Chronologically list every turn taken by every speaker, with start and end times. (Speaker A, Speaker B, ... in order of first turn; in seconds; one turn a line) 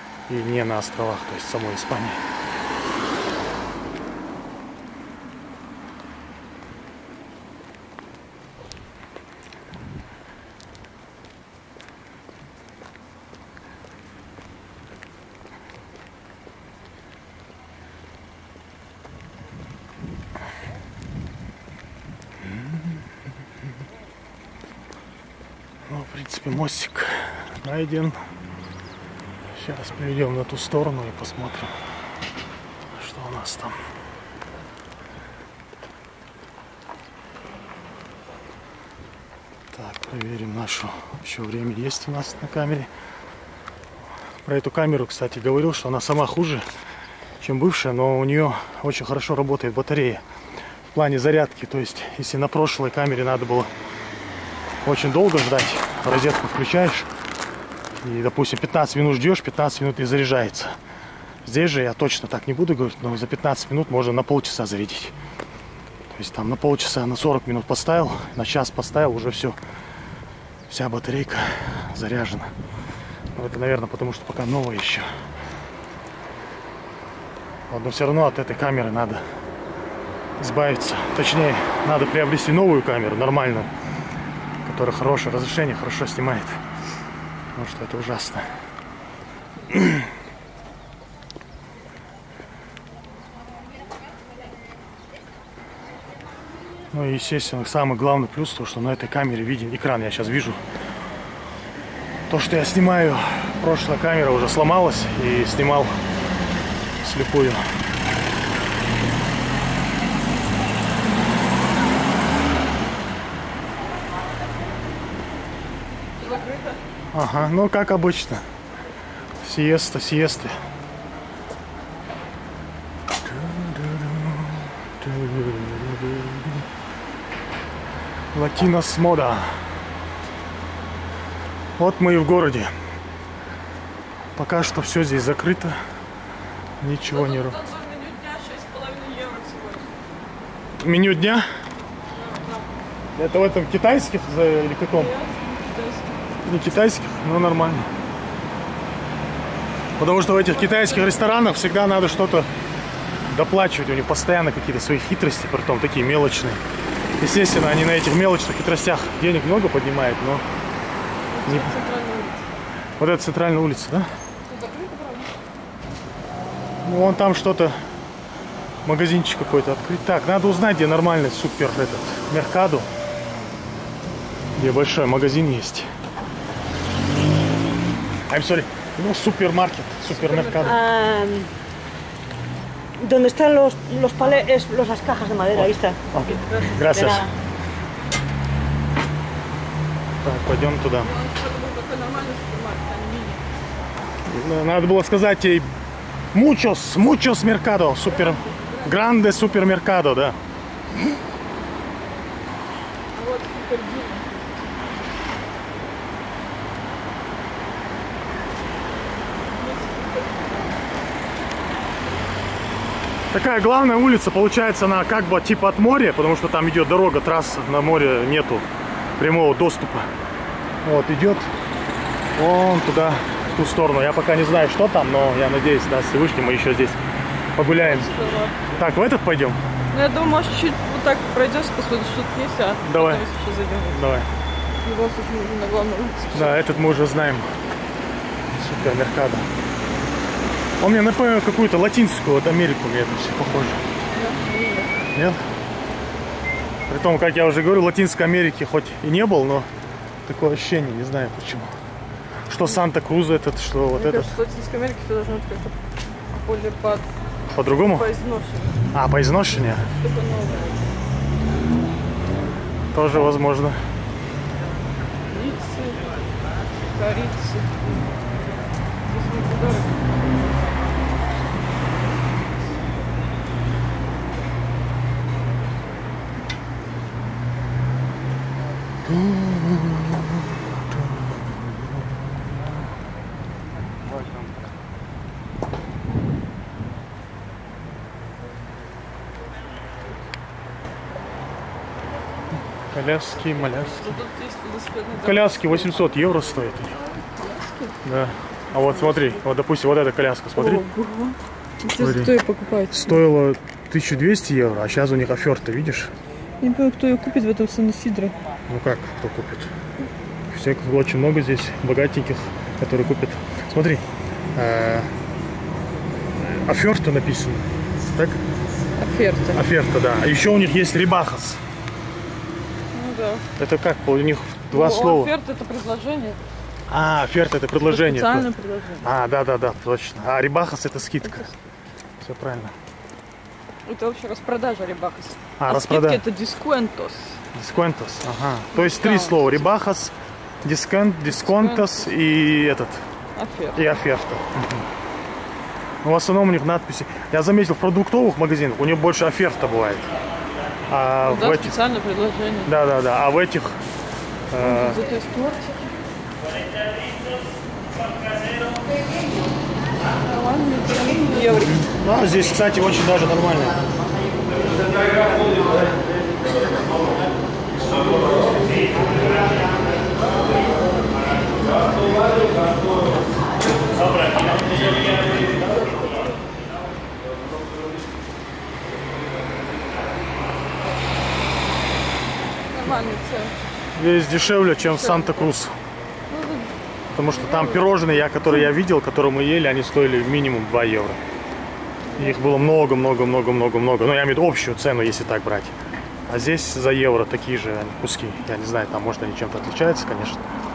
Speaker A: 0.3-2.2
Speaker A: 22.4-22.9
Speaker A: 25.9-28.2
Speaker A: 29.5-31.7
Speaker A: 32.9-33.7
Speaker A: 39.7-42.9
Speaker A: 44.4-46.6
Speaker A: 47.4-50.2
Speaker A: 50.9-53.7
Speaker A: 54.8-57.1
Speaker A: 58.0-60.8
Speaker A: 61.5-65.1
Speaker A: 66.1-69.6
Speaker A: 70.7-72.5
Speaker A: 73.3-75.1
Speaker A: 77.7-79.2
Speaker A: 80.4-83.7
Speaker A: 84.6-86.6
Speaker A: 87.5-88.4
Speaker A: 89.7-90.0
Speaker A: 96.9-100.6
Speaker A: 102.3-105.9
Speaker A: 107.0-107.6
Speaker B: 116.2-116.6
Speaker A: 117.1-118.4
Speaker A: 119.4-120.5
Speaker A: 123.2-126.7
Speaker A: 128.3-129.5
Speaker A: 131.8-132.7
Speaker A: 134.3-135.8
Speaker A: 136.8-137.6
Speaker B: 137.1-140.0
Speaker A: 140.8-141.4
Speaker B: 142.1-142.7
Speaker A: 143.2-145.1
Speaker B: 144.9-146.5
Speaker A: 146.4-147.9
Speaker A: 150.0-152.5
Speaker B: 150.3-151.4
Speaker A: 153.3-156.6
Speaker A: 157.2-160.4
Speaker B: 161.2-162.4
Speaker A: 161.5-161.7
Speaker A: 163.0-164.1
Speaker B: 164.4-165.4
Speaker A: 166.8-167.8
Speaker A: 168.8-172.9
Speaker A: 174.6-175.9
Speaker A: 178.3-180.8
Speaker B: 180.1-180.8
Speaker C: 180.6-181.5
Speaker C: 183.0-187.3
Speaker B: 184.2-184.5
Speaker A: 186.1-187.3
Speaker B: 186.2-186.8
Speaker A: 190.2-191.1
Speaker B: 191.0-193.4
Speaker A: 194.2-195.7
Speaker A: 196.3-200.4
Speaker B: 198.0-199.5
Speaker B: 203.1-204.8
Speaker B: 209.5-210.8
Speaker A: 213.3-218.6
Speaker A: 219.2-220.1
Speaker A: 220.8-221.5
Speaker A: 222.3-227.0
Speaker A: 227.5-228.1
Speaker B: 227.7-228.7
Speaker A: 228.7-229.6
Speaker B: 229.9-234.0
Speaker A: 232.8-233.3
Speaker A: 233.9-234.3
Speaker B: 234.8-236.7
Speaker A: 236.3-237.5
Speaker A: 238.5-239.5
Speaker A: 240.8-243.8
Speaker B: 244.1-245.1
Speaker A: 245.1-245.4
Speaker A: 246.9-249.7
Speaker A: 250.2-251.7
Speaker A: 252.5-254.3
Speaker B: 253.9-255.8
Speaker B: 256.3-257.1
Speaker A: 257.5-258.1
Speaker B: 257.7-258.9
Speaker A: 258.9-259.9
Speaker B: 259.9-260.9
Speaker A: 262.9-263.8
Speaker B: 265.3-266.1
Speaker B: 266.9-267.8
Speaker B: 269.0-270.1
Speaker A: 279.0-282.7
Speaker A: 292.7-294.2
Speaker B: 293.9-296.1
Speaker A: 295.2-296.9
Speaker B: 296.9-298.0
Speaker A: 298.0-300.9
Speaker B: 298.7-299.4
Speaker B: 300.6-303.2
Speaker A: 302.0-302.3
Speaker A: 302.9-306.1
Speaker B: 306.6-308.3
Speaker A: 308.7-309.7
Speaker A: 310.5-315.1
Speaker A: 316.4-318.4
Speaker B: 319.0-319.6
Speaker A: 319.5-321.6
Speaker B: 322.9-323.4
Speaker A: 323.6-325.3
Speaker B: 324.7-326.4
Speaker A: 326.9-328.5
Speaker B: 327.8-329.1
Speaker A: 329.0-331.5
Speaker B: 331.2-331.6
Speaker A: 332.2-332.7
Speaker B: 333.8-337.4
Speaker A: 335.6-336.2
Speaker A: 337.5-343.0
Speaker B: 338.7-339.7
Speaker B: 341.3-342.1
Speaker B: 343.4-343.9
Speaker A: 343.7-344.9
Speaker A: 346.0-350.1
Speaker A: 350.9-351.8
Speaker B: 351.2-352.7
Speaker A: 352.6-353.8
Speaker A: 354.5-355.0
Speaker B: 354.6-355.9
Speaker B: 360.2-361.9
Speaker A: 361.8-363.8
Speaker B: 375.4-376.4
Speaker B: 382.7-383.6
Speaker A: 383.9-385.7
Speaker B: 384.8-385.5
Speaker B: 386.3-388.7
Speaker A: 387.1-391.2
Speaker B: 392.1-392.4
Speaker A: 392.2-395.7
Speaker A: 396.3-400.5